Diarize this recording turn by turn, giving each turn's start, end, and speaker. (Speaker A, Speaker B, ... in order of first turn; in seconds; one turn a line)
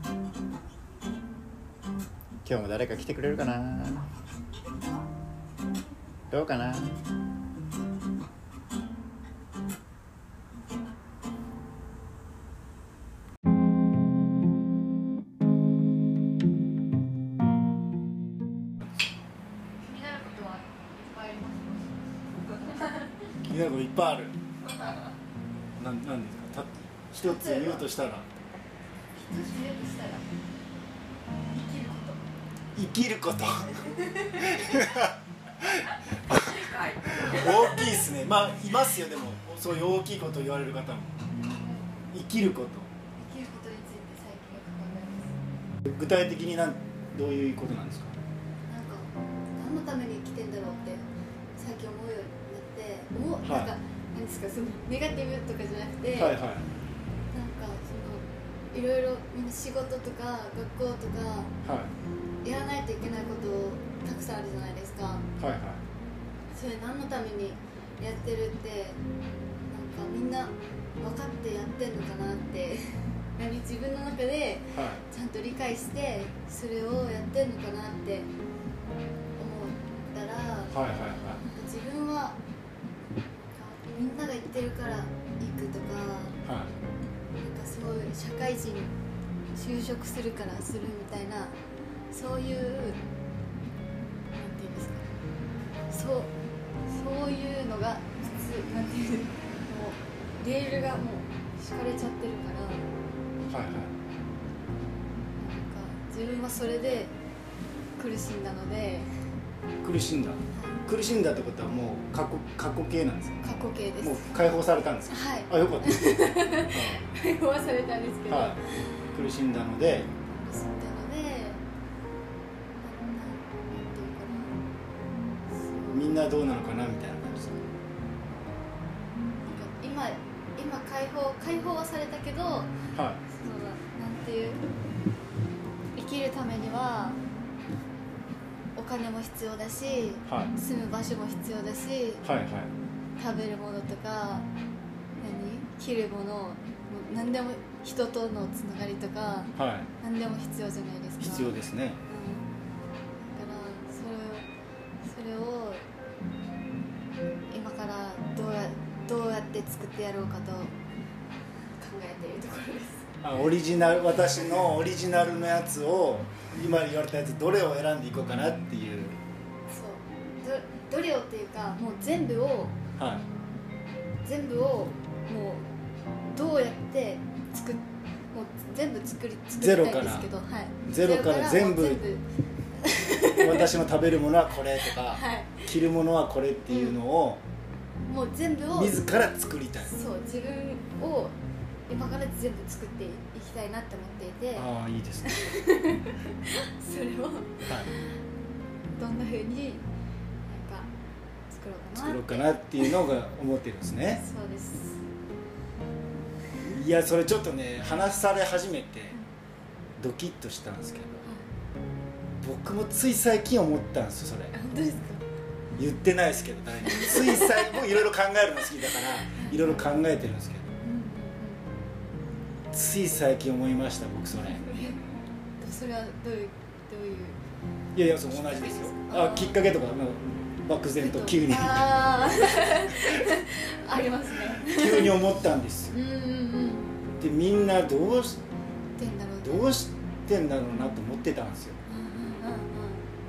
Speaker A: 2.4-4.0
Speaker A: 6.3-7.0
Speaker B: 19.8-23.1
Speaker C: 23.4-24.3
Speaker C: 25.8-28.3
Speaker B: 27.2-27.9
Speaker B: 29.1-30.2
Speaker B: 31.5-32.2
Speaker C: 32.7-41.2
Speaker B: 33.8-34.9
Speaker B: 36.3-37.9
Speaker B: 41.3-42.0
Speaker C: 42.1-42.9
Speaker B: 43.2-45.4
Speaker C: 45.8-48.1
Speaker B: 48.7-51.0
Speaker B: 51.5-56.4
Speaker C: 53.4-53.7
Speaker C: 56.1-56.6
Speaker B: 57.3-61.5
Speaker C: 61.6-61.9
Speaker B: 62.4-65.2
Speaker C: 65.4-65.8
Speaker B: 66.5-69.0
Speaker B: 69.7-78.3
Speaker C: 74.7-75.0
Speaker B: 79.4-80.8
Speaker C: 80.7-81.4
Speaker B: 81.5-82.4
Speaker B: 83.5-86.4
Speaker C: 86.4-86.7
Speaker B: 87.3-88.9
Speaker B: 89.5-91.5
Speaker B: 92.1-93.0
Speaker B: 94.3-95.2
Speaker B: 95.9-96.3
Speaker B: 96.9-102.8
Speaker C: 103.5-103.9
Speaker B: 105.3-107.1
Speaker B: 108.0-109.1
Speaker C: 109.8-117.0
Speaker B: 110.5-110.8
Speaker B: 113.4-114.4
Speaker B: 115.1-118.8
Speaker C: 118.3-118.6
Speaker C: 119.1-120.1
Speaker B: 120.2-121.6
Speaker B: 122.7-124.6
Speaker B: 125.5-126.1
Speaker C: 125.9-127.5
Speaker B: 127.2-127.8
Speaker B: 129.4-132.7
Speaker C: 132.9-133.2
Speaker B: 133.3-134.6
Speaker B: 135.9-137.2
Speaker B: 138.8-142.2
Speaker C: 140.2-140.5
Speaker C: 142.2-142.7
Speaker B: 143.2-144.5
Speaker B: 145.2-151.6
Speaker C: 149.6-149.9
Speaker C: 151.2-152.0
Speaker B: 152.1-152.5
Speaker B: 153.3-154.5
Speaker B: 155.0-155.8
Speaker B: 157.5-160.7
Speaker B: 161.8-163.1
Speaker C: 163.2-169.2
Speaker B: 169.7-172.8
Speaker C: 173.0-173.2
Speaker B: 174.2-175.7
Speaker B: 176.2-182.2
Speaker C: 179.5-180.3
Speaker C: 180.8-182.0
Speaker B: 182.8-183.7
Speaker C: 183.3-187.4
Speaker B: 184.9-185.7
Speaker B: 186.7-187.0
Speaker B: 188.1-189.0
Speaker C: 188.7-189.9
Speaker B: 189.8-191.3
Speaker B: 191.9-194.7
Speaker C: 194.5-195.4
Speaker B: 195.2-198.1
Speaker C: 197.7-197.9
Speaker B: 198.9-199.8
Speaker B: 200.5-200.9
Speaker B: 201.5-203.0
Speaker C: 201.9-204.2
Speaker B: 204.1-205.0
Speaker C: 206.6-209.2
Speaker C: 210.0-211.2
Speaker C: 212.4-214.5
Speaker B: 214.5-215.2
Speaker C: 215.8-220.7
Speaker B: 216.8-217.9
Speaker B: 219.3-219.9
Speaker B: 220.8-221.6
Speaker C: 222.7-225.0
Speaker B: 224.6-225.0
Speaker B: 225.6-227.4
Speaker C: 227.9-233.2
Speaker B: 228.3-229.6
Speaker B: 231.0-235.2
Speaker C: 234.6-236.0
Speaker B: 235.9-236.9
Speaker C: 237.2-238.4
Speaker B: 239.0-239.8
Speaker C: 239.4-241.8
Speaker B: 241.8-243.1